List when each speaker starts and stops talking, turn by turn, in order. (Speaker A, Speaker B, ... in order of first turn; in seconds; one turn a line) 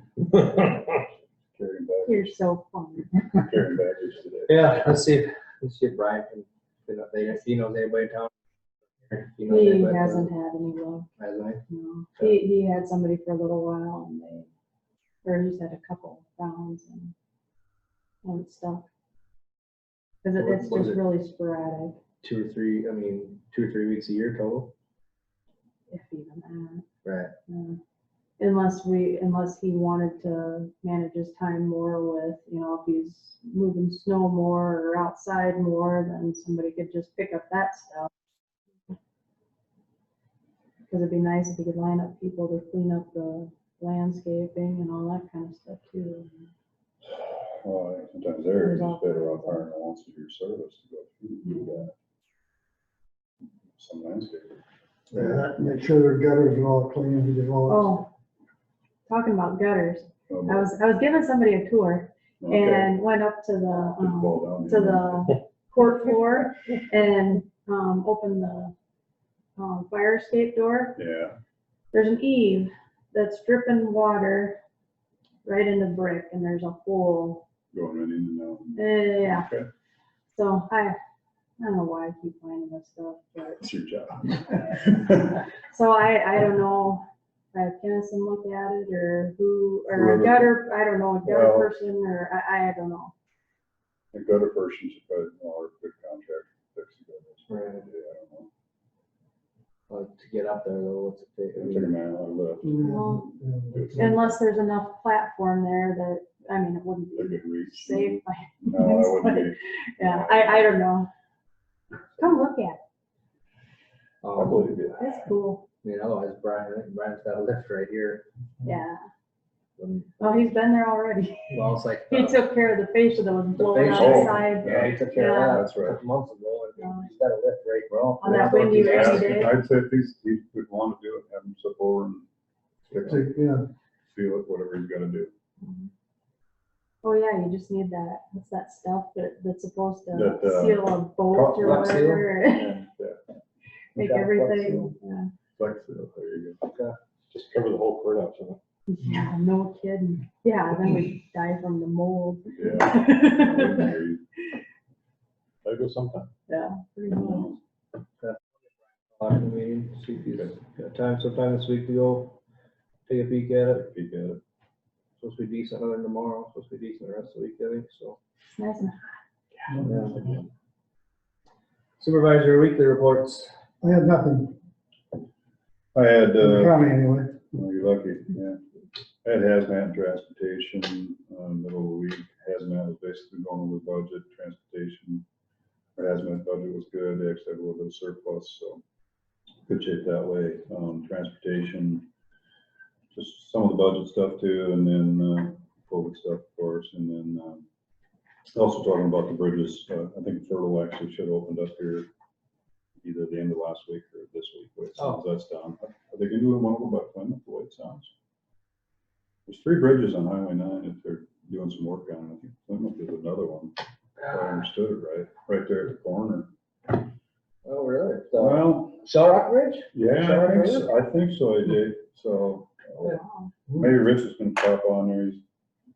Speaker A: 0.3-0.8
Speaker B: 1.6-2.3
Speaker C: 2.0-3.1
Speaker B: 3.4-4.7
Speaker D: 4.5-8.3
Speaker D: 9.1-10.3
Speaker C: 9.5-11.1
Speaker D: 11.2-11.6
Speaker C: 11.7-14.5
Speaker C: 15.2-17.1
Speaker C: 18.2-18.9
Speaker C: 20.2-22.0
Speaker D: 20.4-21.0
Speaker D: 22.2-24.7
Speaker C: 25.9-26.9
Speaker D: 27.0-27.3
Speaker C: 27.5-27.8
Speaker C: 28.4-38.1
Speaker C: 40.9-46.5
Speaker B: 47.1-51.9
Speaker C: 48.5-49.7
Speaker C: 51.5-51.9
Speaker B: 53.8-54.6
Speaker B: 55.1-55.4
Speaker E: 55.1-57.9
Speaker C: 57.7-58.1
Speaker C: 59.1-68.7
Speaker B: 60.3-60.7
Speaker B: 62.4-62.9
Speaker B: 63.8-65.3
Speaker C: 69.6-71.0
Speaker B: 71.0-71.4
Speaker C: 71.9-74.6
Speaker C: 75.4-77.5
Speaker B: 77.7-79.7
Speaker C: 78.8-79.5
Speaker C: 80.3-81.0
Speaker C: 81.6-83.6
Speaker B: 83.6-85.4
Speaker C: 85.7-87.0
Speaker C: 87.5-93.1
Speaker B: 89.9-90.6
Speaker B: 91.2-91.7
Speaker B: 94.1-98.5
Speaker D: 97.5-97.8
Speaker D: 99.9-101.9
Speaker B: 101.6-103.2
Speaker E: 102.7-103.9
Speaker C: 102.9-103.3
Speaker B: 103.7-104.4
Speaker C: 104.0-111.1
Speaker B: 107.1-110.8
Speaker C: 112.2-112.8
Speaker D: 114.2-114.7
Speaker B: 114.3-115.1
Speaker C: 115.0-115.7
Speaker D: 115.8-118.3
Speaker C: 118.6-119.0
Speaker D: 119.8-120.2
Speaker C: 120.2-121.6
Speaker D: 121.5-122.4
Speaker C: 122.1-125.7
Speaker D: 123.6-129.4
Speaker B: 123.9-126.0
Speaker C: 126.8-127.1
Speaker B: 127.9-132.3
Speaker C: 128.2-129.5
Speaker B: 132.9-133.3
Speaker E: 133.1-133.7
Speaker B: 134.1-135.3
Speaker C: 135.6-135.9
Speaker C: 137.0-142.8
Speaker B: 140.1-143.2
Speaker D: 141.6-142.2
Speaker C: 143.9-145.3
Speaker D: 144.0-144.9
Speaker B: 145.6-146.6
Speaker D: 146.7-146.9
Speaker A: 147.3-148.6
Speaker C: 148.9-153.9
Speaker B: 152.6-154.2
Speaker A: 155.7-156.3
Speaker C: 156.5-157.6
Speaker B: 157.1-157.6
Speaker D: 159.2-162.4
Speaker D: 163.1-163.9
Speaker B: 163.8-164.4
Speaker D: 165.2-168.2
Speaker C: 168.5-169.2
Speaker D: 169.8-170.2
Speaker D: 172.0-173.5
Speaker E: 173.8-174.6
Speaker B: 175.9-176.8
Speaker E: 176.4-177.4
Speaker B: 177.4-178.6
Speaker B: 179.2-185.2
Speaker B: 186.0-188.8
Speaker B: 189.7-192.1
Speaker B: 193.1-197.7
Speaker B: 198.6-202.1
Speaker B: 203.0-208.1
Speaker B: 209.5-213.8
Speaker B: 214.3-216.5
Speaker D: 217.7-220.9
Speaker B: 218.4-219.0
Speaker B: 219.9-223.2
Speaker C: 223.1-223.5
Speaker B: 223.7-225.4